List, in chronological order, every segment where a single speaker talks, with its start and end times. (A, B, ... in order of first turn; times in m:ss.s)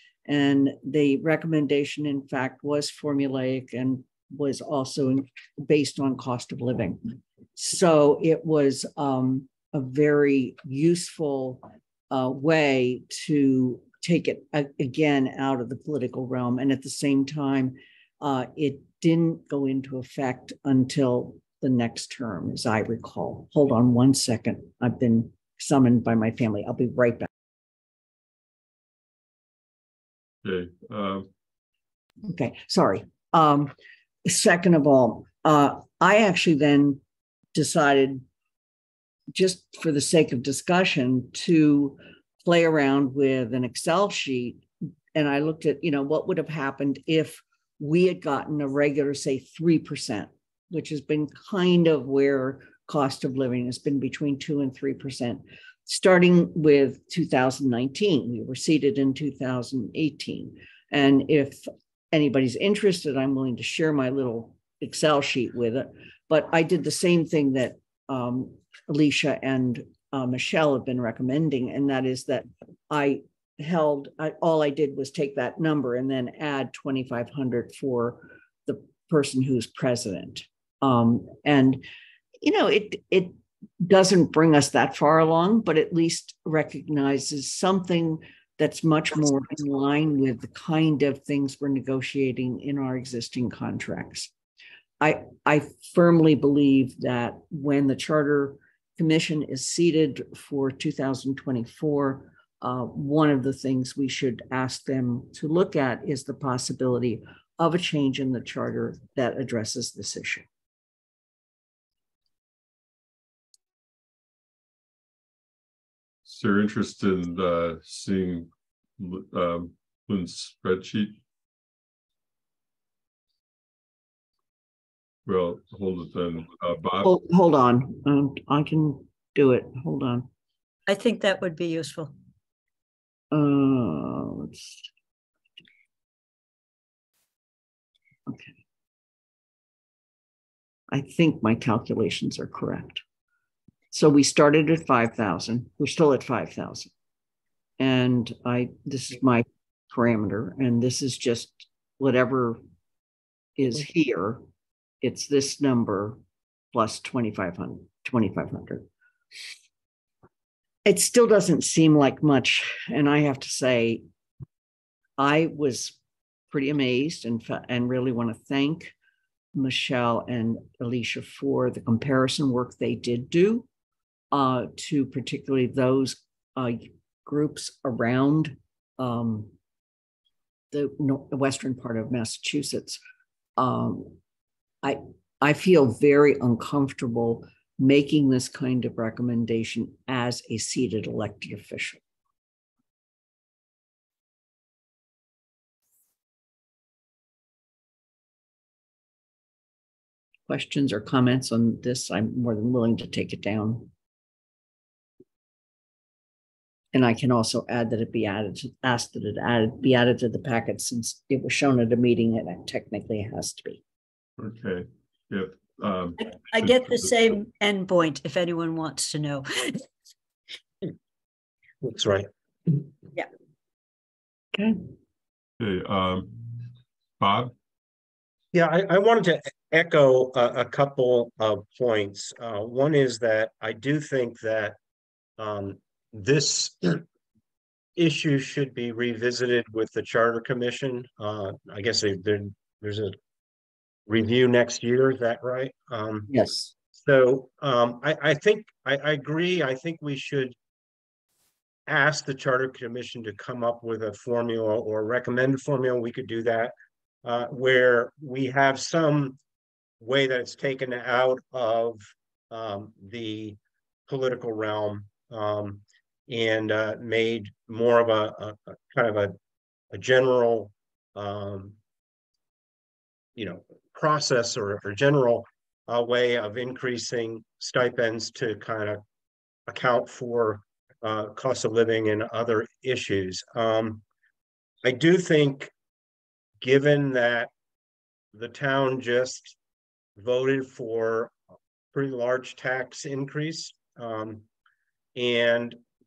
0:00.2-0:27.3 A
0:30.4-0:31.3 B
0:32.2-0:33.7 A
0:34.2-0:37.0 A
0:37.5-0:38.2 A
0:39.3-1:21.8 A
1:22.4-1:34.3 A
1:35.0-1:50.4 A
1:56.2-2:01.2 B
2:05.2-2:07.1 B
2:07.0-2:10.3 A
2:10.9-2:12.1 C
2:13.3-2:14.7 A
2:18.3-2:18.6 A
2:20.9-2:23.0 A
2:23.9-2:26.9 A
2:27.8-2:32.6 A
2:33.6-2:34.5 A
2:35.0-2:36.2 A
2:36.7-2:38.9 A
2:40.8-2:44.1 A
2:45.2-2:46.0 A
2:46.5-2:48.9 A
2:49.5-2:53.7 A
2:54.3-2:59.5 A
3:00.7-3:03.0 A
3:03.6-3:04.2 A
3:04.8-3:12.0 A
3:20.5-3:23.9 A
3:26.9-3:33.8 A
3:34.4-3:37.2 B
3:36.2-3:39.8 C
3:41.8-3:42.9 D
3:44.5-3:44.8 A
3:45.6-3:47.5 B
3:48.5-3:54.8 D
3:55.4-3:57.0 D
3:58.0-4:03.2 D
4:04.1-4:06.3 D
4:06.3-4:06.7 A
4:07.0-4:10.6 D
4:11.9-4:19.4 D
4:20.0-4:29.4 D
4:29.9-4:31.8 D
4:33.4-4:39.0 D
4:39.7-4:44.0 D
4:44.8-4:45.7 D
4:46.6-4:47.5 D
4:48.3-4:49.6 D
4:50.2-4:51.3 D
4:51.9-4:54.4 D
4:55.2-4:55.8 D